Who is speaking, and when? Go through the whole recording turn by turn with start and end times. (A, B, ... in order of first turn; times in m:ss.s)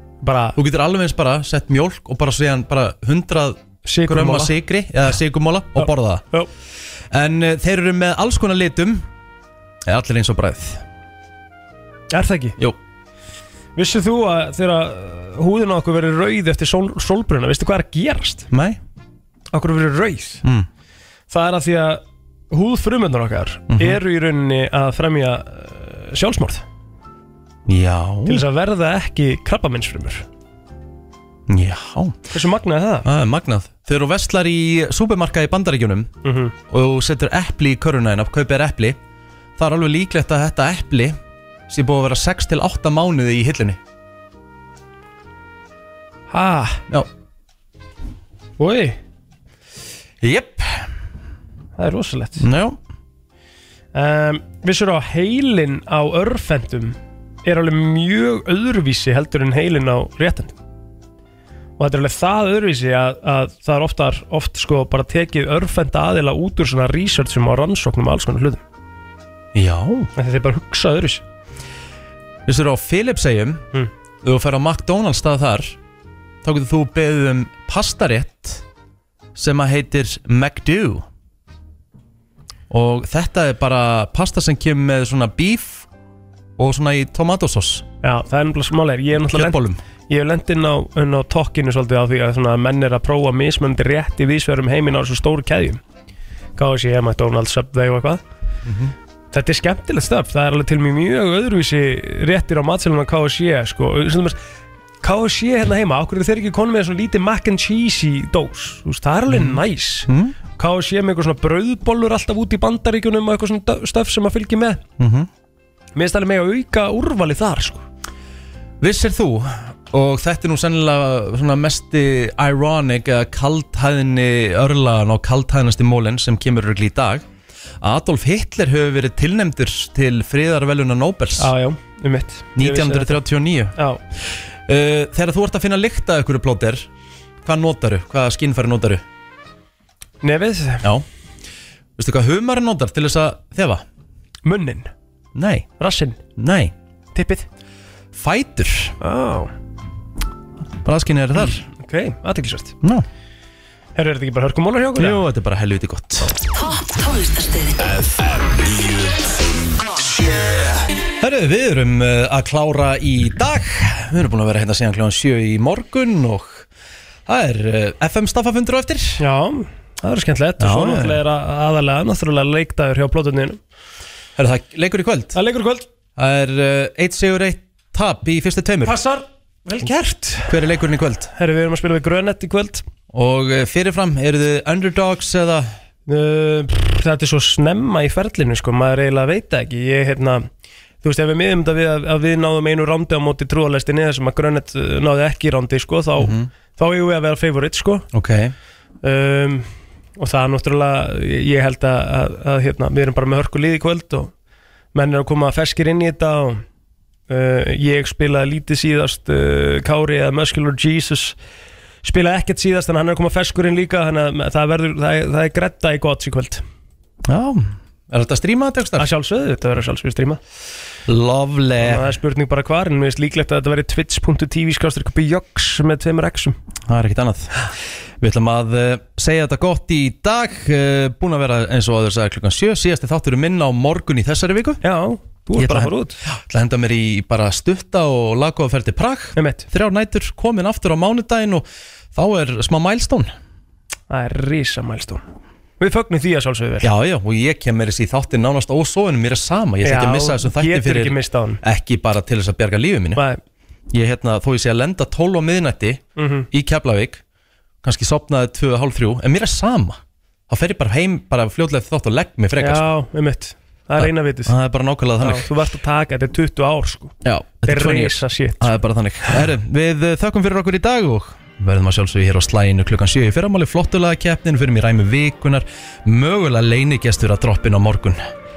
0:00.2-0:00.6 A
0:00.6-0:06.2 B
0:03.8-0:04.5 A
0:05.8-0:06.5 A
0:07.1-0:09.0 B
0:09.8-0:10.8 B
0:12.1-0:12.6 A
0:13.8-0:18.5 A
0:18.5-0:18.8 B
0:19.5-0:20.4 A
0:20.4-0:20.7 B
0:21.3-0:26.6 A
0:23.7-0:24.0 B
0:27.7-0:28.4 B
0:28.3-0:30.2 A
0:31.5-0:32.2 B
0:32.3-0:33.1 A
0:33.0-0:36.1 B
0:36.2-0:36.5 A
0:36.7-0:39.0 B
0:39.6-0:41.2 B
0:41.7-0:43.8 B
0:46.3-0:46.8 A
0:48.6-0:49.0 A
0:50.2-0:50.9 B
0:51.8-0:52.4 A
0:52.4-0:52.8 B
0:53.9-1:00.6 A
1:01.8-1:08.6 A
1:09.5-1:10.1 B
1:10.2-1:11.2 A
1:12.4-1:13.6 B
1:14.2-1:15.8 B
1:16.4-1:18.6 B
1:19.4-1:21.0 B
1:22.7-1:25.9 B
1:26.6-1:27.8 B
1:28.0-1:35.8 A
1:29.3-1:29.8 B
1:36.6-1:38.2 A
1:38.6-1:38.9 B
1:39.3-1:44.4 A
1:45.0-1:54.8 A
1:49.3-1:50.4 B
1:55.0-1:55.3 B
1:55.9-1:57.8 A
1:58.8-2:07.2 B
2:07.8-2:11.5 B
2:11.4-2:13.2 A
2:12.6-2:16.9 B
2:13.8-2:14.0 A
2:17.4-2:19.0 B
2:20.2-2:20.9 A
2:22.0-2:23.8 B
2:24.4-2:24.9 A
2:25.3-2:25.7 B
2:25.8-2:26.2 A
2:26.4-2:26.7 B
2:27.1-2:27.5 A
2:28.1-2:28.9 B
2:29.0-2:29.5 A
2:30.8-2:31.6 B
2:31.8-2:32.8 A
2:34.0-2:35.2 A
2:35.0-2:36.3 B
2:41.2-2:46.7 B
2:47.2-2:49.2 B
2:49.2-2:53.6 A
2:50.6-2:51.2 B
2:54.4-2:55.4 B
2:55.3-2:55.8 A
2:56.2-2:59.0 B
2:58.8-3:00.6 A
3:00.5-3:01.3 B
3:01.4-3:02.8 A
3:03.1-3:05.7 B
3:06.1-3:10.4 A
3:11.0-3:18.1 A
3:16.2-3:16.5 B
3:18.1-3:18.5 B
3:19.0-3:24.3 A
3:24.9-3:26.6 A
3:27.3-3:31.4 A
3:32.0-3:36.6 A
3:37.2-3:39.1 B
3:39.0-3:40.4 A
3:41.1-3:42.1 B
3:41.8-3:46.6 A
3:46.9-3:47.5 B
3:48.2-3:54.8 B
3:54.8-3:56.2 A
3:55.6-4:03.3 B
3:59.4-3:59.6 A
4:04.1-4:05.2 A
4:05.8-4:06.9 A
4:06.8-4:13.2 B
4:09.8-4:11.6 A
4:13.9-4:17.2 B
4:16.2-4:16.5 A
4:17.8-4:22.8 B
4:22.6-4:24.5 A
4:24.0-4:25.5 B
4:25.2-4:27.1 A
4:27.2-4:38.3 B
4:27.6-4:29.4 A